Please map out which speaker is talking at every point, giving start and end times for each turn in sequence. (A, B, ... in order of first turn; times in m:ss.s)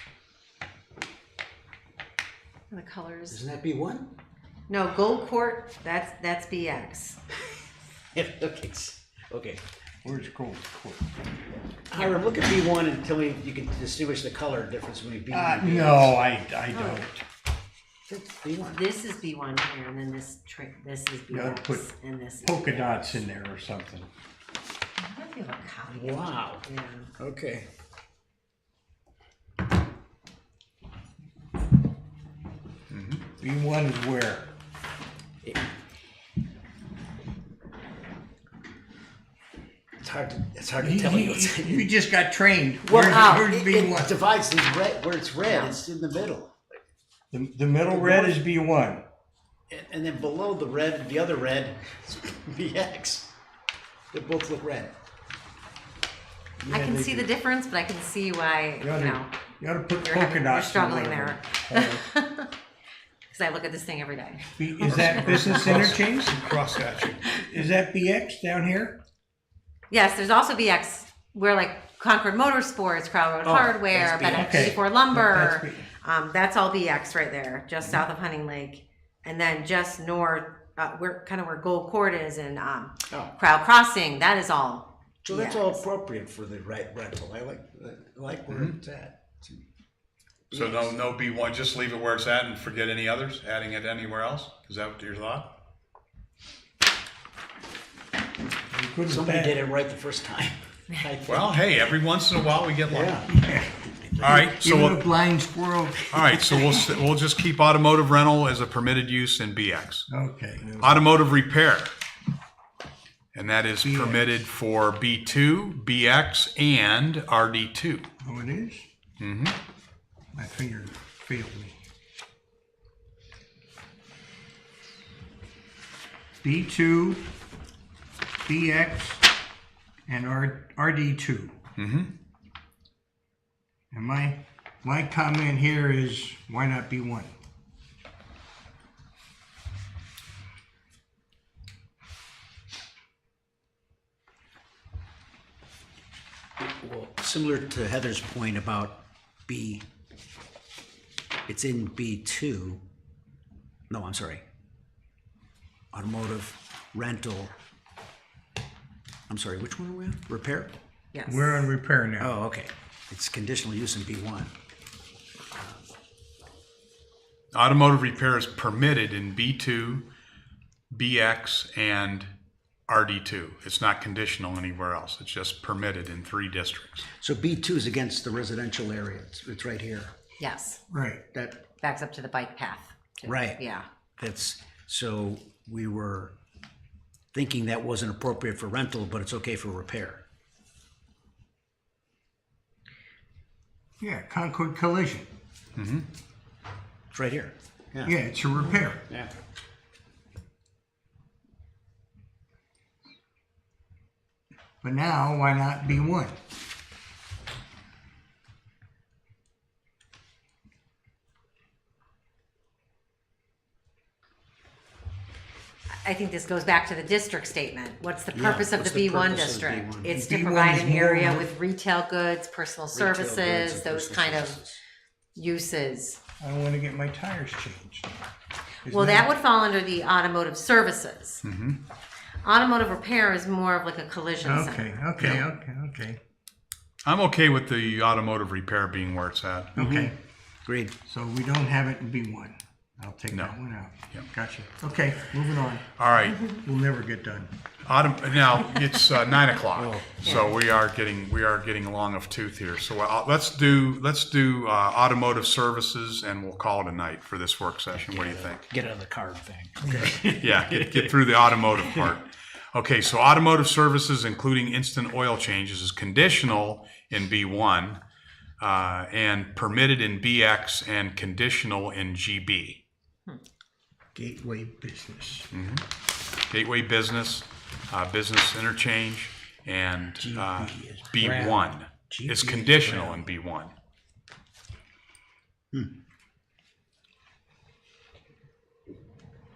0:02.7-0:03.4 A
0:03.3-0:04.1 B
0:04.7-0:07.2 A
0:08.1-0:09.6 B
0:10.0-0:11.0 C
0:11.9-0:16.2 B
0:15.3-0:17.2 C
0:16.7-0:17.1 A
0:18.1-0:18.8 B
0:18.6-0:23.2 A
0:21.3-0:24.1 C
0:25.0-0:27.1 A
0:25.9-0:26.6 B
0:27.2-0:27.7 B
0:32.9-0:33.2 D
0:33.4-0:34.5 C
0:40.0-0:41.9 B
0:40.8-0:44.1 C
0:42.8-0:46.6 B
0:43.0-0:43.5 A
0:45.4-0:45.8 A
0:47.3-0:49.0 C
0:47.9-0:48.4 B
0:49.7-0:53.3 B
0:54.1-0:54.9 B
0:56.6-0:57.3 C
0:56.7-0:59.3 A
0:58.8-1:02.0 C
1:00.0-1:02.5 A
1:03.3-1:05.6 A
1:04.6-1:06.4 C
1:04.9-1:07.4 D
1:07.4-1:09.0 C
1:09.9-1:25.8 A
1:13.4-1:14.8 B
1:14.3-1:15.9 C
1:25.2-1:29.6 B
1:28.5-1:28.8 D
1:30.5-1:31.0 B
1:30.5-1:35.6 D
1:38.7-1:39.6 C
1:39.1-1:41.6 B
1:41.2-1:43.2 D
1:42.9-1:44.4 B
1:43.2-1:46.0 C
1:44.2-1:45.0 D
1:46.1-1:50.0 D
1:46.5-1:46.8 B
1:50.1-1:51.1 C
1:50.8-1:51.9 D
1:53.3-1:58.1 D
1:53.8-1:54.2 C
1:58.2-1:58.8 C
1:59.2-1:59.6 D
2:00.3-2:01.8 C
2:06.4-2:07.2 C
2:08.4-2:09.2 C
2:10.1-2:11.5 C
2:11.8-2:12.1 D
2:13.9-2:17.3 C
2:26.6-2:29.8 B
2:31.5-2:32.8 B
2:33.9-2:34.4 B
2:35.9-2:37.5 B
2:39.3-2:40.7 B
2:41.1-2:41.7 A
2:41.2-2:42.3 C
2:42.2-2:44.5 B
2:47.5-2:50.0 D
2:50.9-2:52.3 D
2:52.9-2:57.0 D
2:57.2-3:00.1 B
3:00.4-3:00.8 A
3:00.9-3:01.2 C
3:01.3-3:01.6 B
3:01.8-3:03.8 A
3:03.2-3:03.6 B
3:04.2-3:06.3 B
3:07.3-3:10.2 B
3:14.0-3:15.3 C
3:15.7-3:16.1 D
3:17.1-3:18.1 B
3:18.0-3:19.1 C
3:24.8-3:26.4 C
3:36.0-3:44.6 A
3:38.3-3:40.1 B
3:40.1-3:41.5 C
3:42.9-3:44.8 B
3:45.3-3:46.2 A
3:46.4-3:48.1 C
3:48.8-3:49.3 C
3:48.9-3:51.4 A
3:51.4-3:51.8 D
3:52.4-3:55.0 A
3:54.4-3:56.2 C
3:55.2-3:55.4 B
3:57.0-3:59.7 D
3:59.8-4:00.1 B
3:59.8-4:00.2 C
4:00.6-4:00.9 B
4:01.0-4:05.8 C
4:06.0-4:06.4 D
4:06.4-4:07.5 C
4:07.8-4:18.7 D
4:09.8-4:10.5 B
4:18.1-4:21.1 B
4:19.8-4:20.1 C
4:20.0-4:28.0 D
4:21.8-4:22.1 B
4:28.6-4:32.8 D
4:34.1-4:35.5 C
4:35.5-4:35.8 D
4:36.5-4:43.7 D
4:40.2-4:43.2 C